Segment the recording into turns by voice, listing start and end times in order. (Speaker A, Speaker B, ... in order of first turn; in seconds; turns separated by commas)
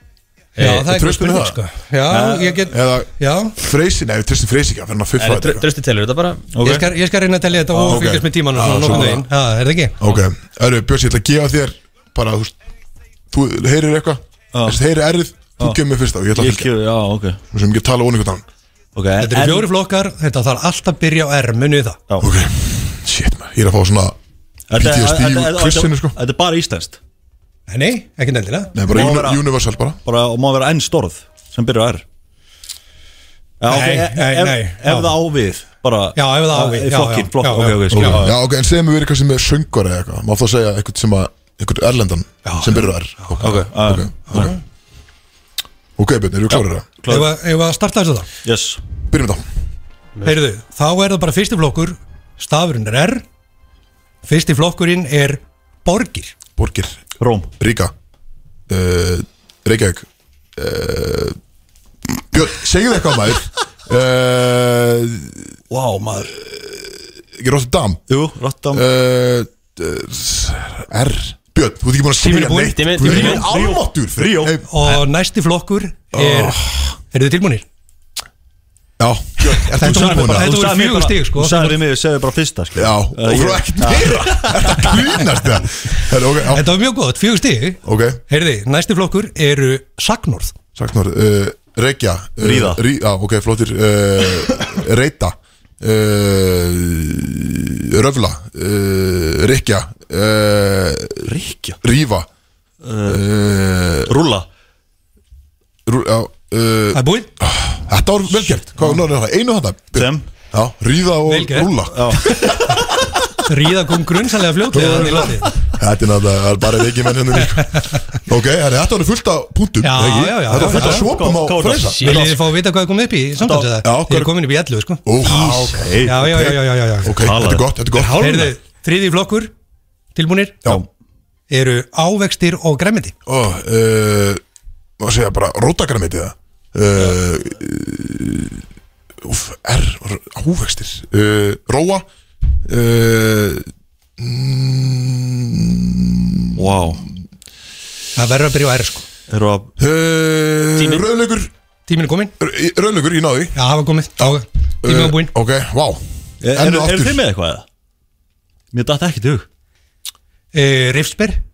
Speaker A: 0.6-3.5, Speaker B: 0.6-0.9, Speaker C: 0.6-1.6, Speaker D: 2.1-2.6, Speaker C: 2.6-5.7, Speaker B: 5.2-6.5, Speaker D: 6.5-6.9, Speaker A: 6.6-10.0, Speaker D: 7.7-9.2, Speaker C: 7.8-9.3, Speaker C: 10.0-12.6, Speaker C: 13.3-16.7, Speaker D: 14.5-14.8, Speaker D: 16.3-17.4, Speaker C: 17.5-18.4, Speaker D: 18.9-19.7, Speaker A: 19.2-22.0, Speaker C: 22.2-24.2, Speaker D: 24.7-27.0, Speaker C: 24.7-26.1, Speaker A: 27.7-28.7, Speaker C: 28.7-30.0, Speaker D: 28.9-29.4, Speaker D: 30.1-32.0, Speaker D: 33.6-38.4, Speaker A: 33.7-35.1, Speaker A: 36.2-38.2, Speaker C: 37.9-44.6, Speaker A: 42.5-42.7, Speaker D: 43.4-44.5, Speaker C: 46.0-46.9, Speaker D: 46.5-47.3, Speaker A: 47.1-48.3, Speaker D: 48.5-48.8, Speaker C: 49.1-49.5, Speaker A: 50.2-53.2, Speaker A: 54.2-56.3, Speaker C: 56.6-57.0, Speaker D: 57.2-57.5, Speaker C: 57.6-57.9, Speaker C: 58.7-61.4, Speaker C: 62.3-65.5, Speaker D: 65.7-66.3, Speaker C: 66.3-68.0, Speaker D: 68.1-68.8, Speaker C: 68.7-74.7, Speaker A: 72.2-72.7, Speaker B: 72.2-73.7, Speaker D: 73.0-74.6, Speaker A: 74.7-77.7, Speaker C: 76.1-76.9, Speaker C: 79.0-80.6, Speaker A: 79.7-81.8, Speaker D: 79.8-85.0, Speaker C: 82.8-86.7, Speaker A: 86.5-90.5, Speaker C: 87.8-88.2, Speaker C: 90.8-101.3, Speaker D: 92.4-92.8, Speaker D: 101.2-101.8, Speaker C: 101.8-102.3, Speaker D: 102.8-103.2, Speaker C: 103.0-104.1, Speaker D: 104.1-104.5, Speaker C: 105.9-112.5, Speaker A: 106.9-107.3, Speaker D: 108.8-109.0, Speaker D: 110.0-110.3, Speaker A: 111.3-111.7, Speaker D: 111.9-113.1, Speaker A: 113.5-115.5, Speaker C: 114.7-122.3, Speaker D: 114.9-115.3, Speaker A: 119.8-121.1, Speaker D: 120.5-122.4, Speaker B: 122.0-122.3, Speaker A: 122.0-127.2, Speaker D: 123.4-123.8, Speaker C: 123.8-124.3, Speaker C: 125.0-128.5, Speaker D: 125.7-126.5, Speaker D: 127.1-127.7, Speaker A: 127.9-129.5, Speaker A: 130.2-130.8, Speaker A: 131.5-133.2, Speaker C: 133.3-134.4, Speaker C: 135.0-138.6, Speaker C: 139.2-142.1, Speaker C: 142.7-147.0, Speaker D: 146.6-147.0, Speaker A: 148.2-149.1, Speaker D: 149.3-149.7, Speaker C: 149.8-151.5, Speaker B: 150.8-151.1, Speaker A: 151.9-152.3, Speaker C: 152.4-153.6, Speaker A: 153.6-155.3, Speaker C: 154.8-157.2, Speaker D: 156.4-157.7, Speaker D: 158.7-159.5, Speaker A: 160.5-161.4